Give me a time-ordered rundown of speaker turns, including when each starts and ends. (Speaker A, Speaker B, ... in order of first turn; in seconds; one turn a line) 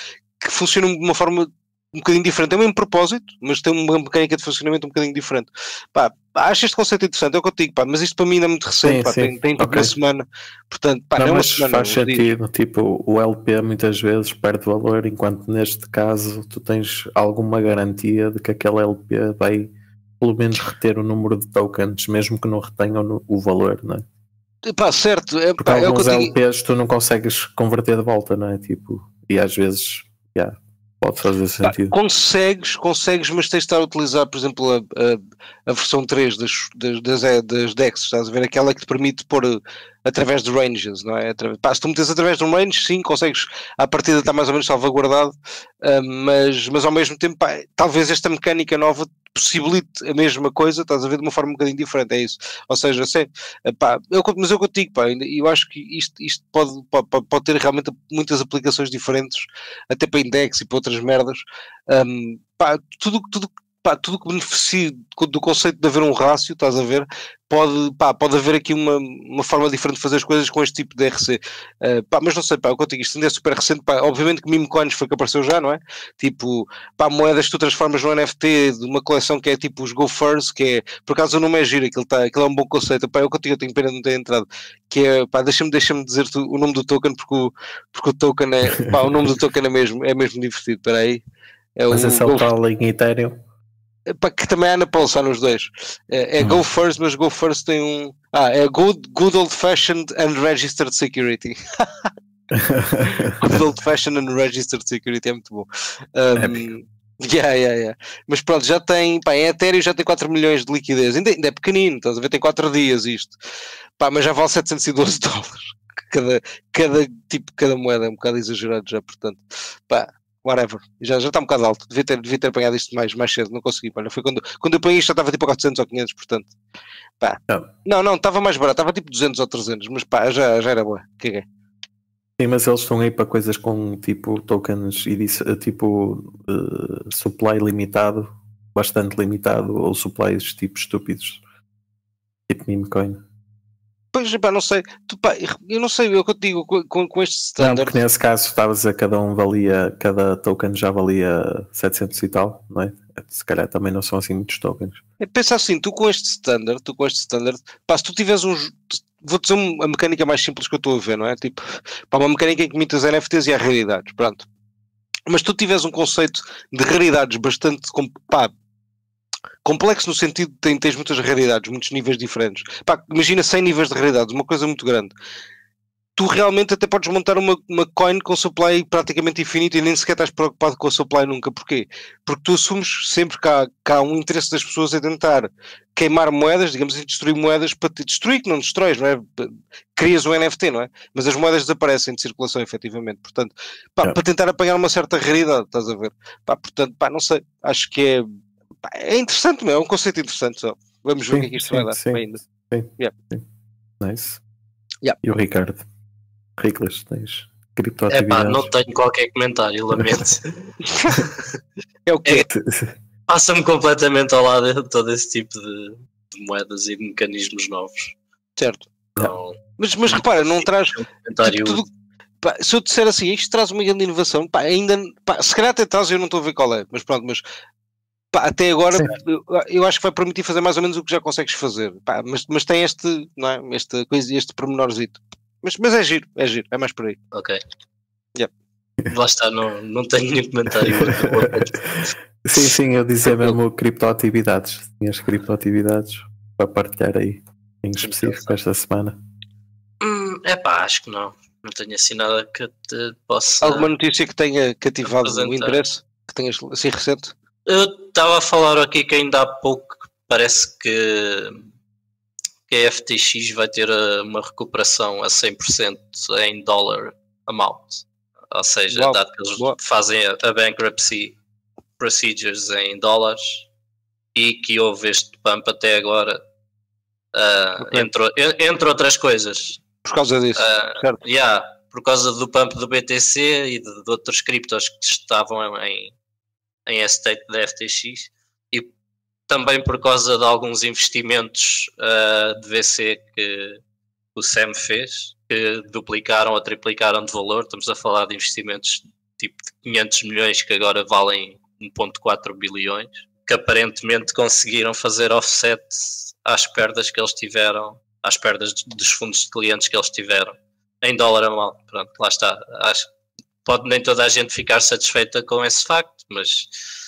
Speaker A: 0.4-12.3
Speaker B: 8.8-9.9
Speaker B: 11.2-24.0
Speaker A: 24.7-26.3
Speaker B: 25.6-32.0
Speaker A: 31.6-91.2
Speaker A: 91.8-92.5
Speaker B: 91.9-93.4
Speaker A: 94.1-102.1
Speaker B: 102.5-103.4
Speaker A: 103.4-113.4
Speaker B: 106.3-106.7
Speaker A: 114.0-126.5
Speaker A: 127.2-131.5
Speaker B: 132.4-141.4
Speaker B: 142.5-143.2
Speaker A: 144.1-148.0
Speaker B: 147.6-155.0
Speaker A: 155.2-164.4
Speaker A: 165.3-168.5
Speaker A: 169.7-175.1
Speaker A: 176.2-198.3
Speaker A: 198.8-202.4
Speaker B: 201.3-203.4
Speaker B: 204.0-204.4
Speaker B: 205.2-205.8
Speaker B: 206.6-208.7
Speaker C: 208.1-210.5
Speaker A: 210.8-211.2
Speaker A: 212.1-212.5
Speaker B: 212.5-212.9
Speaker C: 213.3-218.2
Speaker A: 218.6-218.9
Speaker C: 219.2-221.8
Speaker A: 219.8-221.9
Speaker A: 222.4-227.4
Speaker A: 228.3-237.2
Speaker C: 237.3-237.6
Speaker C: 239.1-242.1
Speaker B: 240.9-241.6
Speaker B: 242.4-249.2
Speaker A: 243.3-243.6
Speaker C: 250.0-253.9
Speaker A: 253.6-257.3
Speaker C: 255.1-255.8
Speaker C: 257.7-261.6
Speaker C: 262.7-271.4
Speaker A: 268.9-269.8
Speaker C: 272.0-273.7
Speaker C: 274.4-276.4
Speaker C: 277.3-279.8
Speaker A: 277.8-278.1
Speaker A: 280.0-281.2
Speaker C: 280.6-286.1
Speaker C: 286.9-288.9
Speaker C: 289.5-293.8
Speaker C: 294.4-313.1
Speaker C: 313.6-316.7